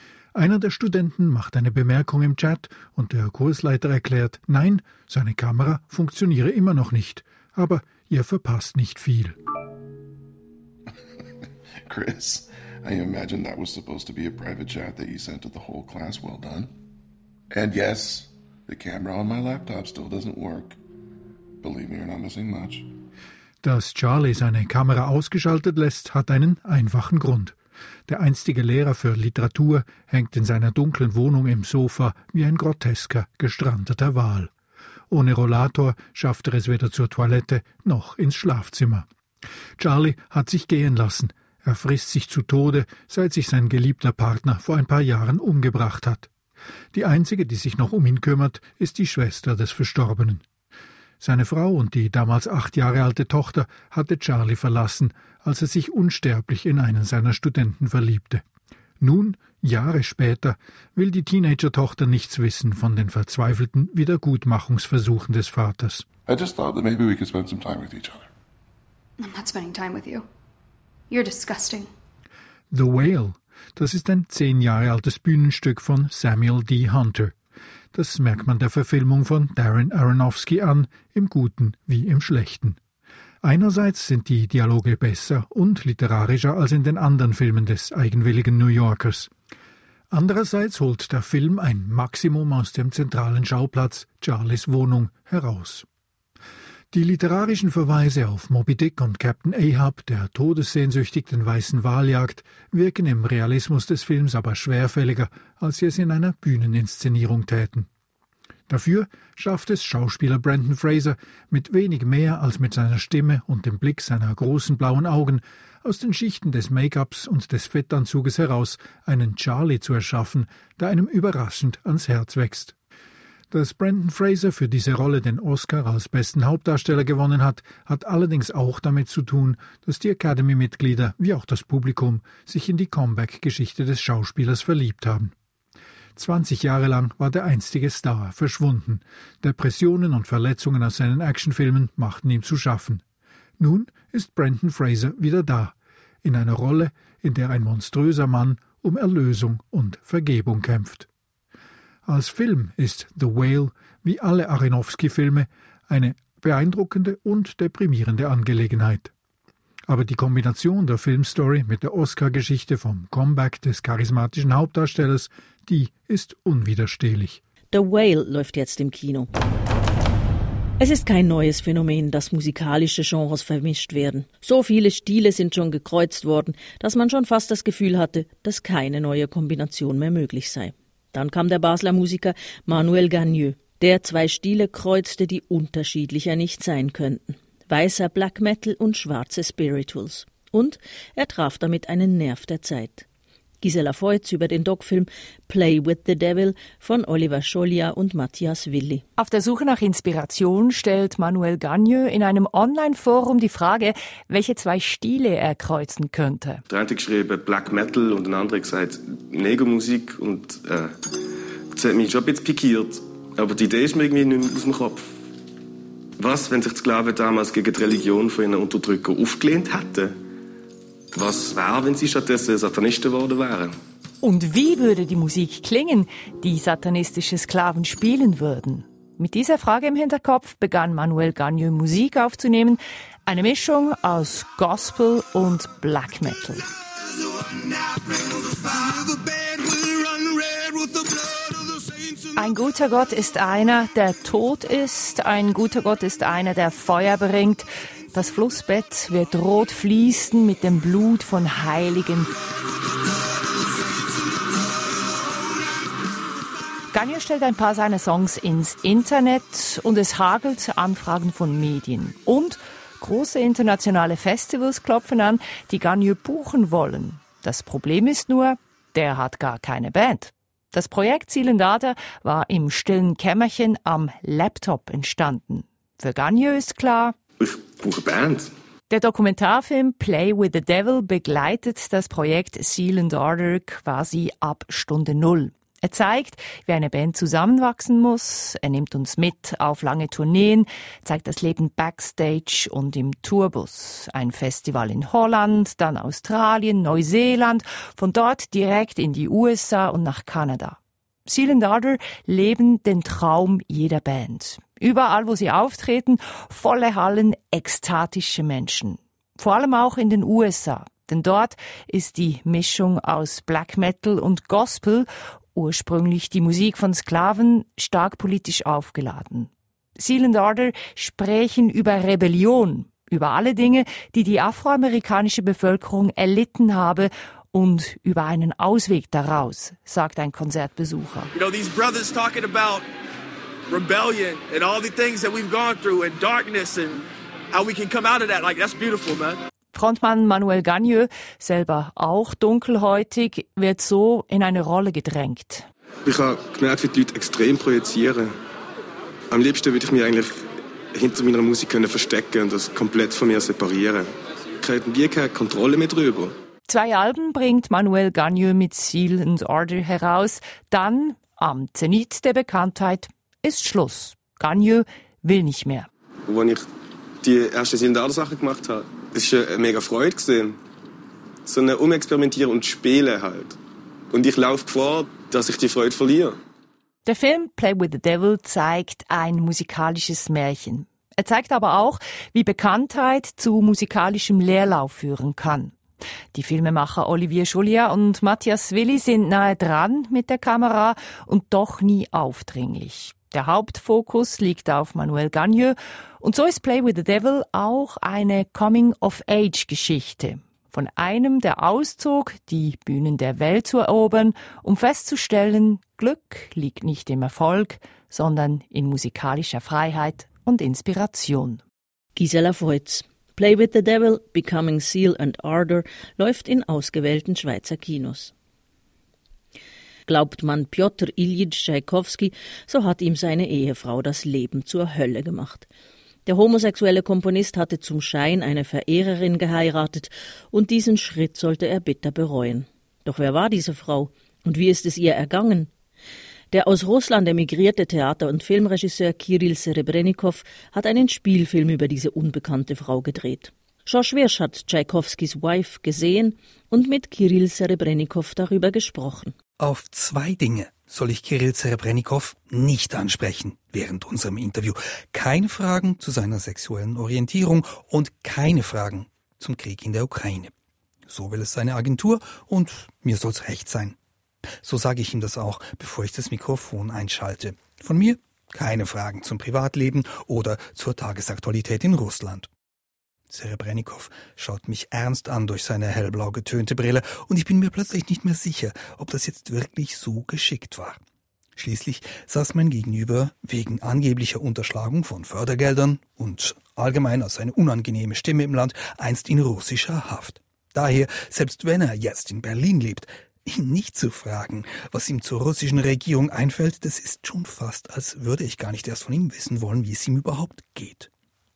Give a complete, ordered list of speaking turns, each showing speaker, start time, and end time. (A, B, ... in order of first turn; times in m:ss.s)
0:00.3-0:09.4 A
0:11.9-0:16.8 B
0:17.5-0:20.8 B
0:21.6-0:22.9 B
0:23.6-0:27.5 A
0:28.1-0:34.5 A
0:35.1-0:39.0 A
0:39.8-0:46.3 A
0:46.9-0:50.4 A
0:51.2-0:58.4 A
0:59.0-1:06.0 A
1:06.2-1:08.3 B
1:09.2-1:10.2 C
1:11.1-1:11.9 C
1:12.7-1:17.3 A
1:17.9-1:22.8 A
1:23.4-1:29.3 A
1:30.1-1:35.8 A
1:36.9-1:47.9 A
1:48.7-2:02.8 A
2:03.5-2:15.3 A
2:16.2-2:23.0 A
2:23.6-2:31.1 A
2:32.0-2:39.1 A
2:39.9-2:47.4 A
2:47.7-2:49.3 D
2:50.8-3:13.0 D
3:13.6-3:19.0 D
3:19.2-3:26.6 E
3:26.7-3:31.0 F
3:31.7-3:35.1 F
3:36.2-3:40.2 F
3:41.1-3:43.8 F
3:44.2-3:56.6 E
3:57.4-4:02.1 G
4:02.4-4:12.3 E
4:16.9-4:37.2 E
4:37.4-4:38.5 F
4:38.9-5:31.3 E
5:31.3-5:32.9 G
5:33.7-5:39.4 G
5:39.7-5:45.6 E
5:46.0-5:48.3 F
5:49.3-5:50.4 F
5:50.9-5:56.3 F
5:56.7-6:05.9 E
6:06.3-6:06.6 F
6:07.2-6:10.6 F
6:11.4-6:13.6 F
6:14.1-6:16.4 F
6:17.0-6:25.8 E
6:26.3-6:51.6 E
6:52.2-6:58.3 D
7:00.1-7:05.7 D
7:06.2-7:15.7 D
7:16.5-7:29.3 D
7:29.6-7:40.5 H
7:41.1-7:44.0 H
7:44.6-7:52.5 H
7:53.3-8:01.0 H
8:01.6-8:21.1 H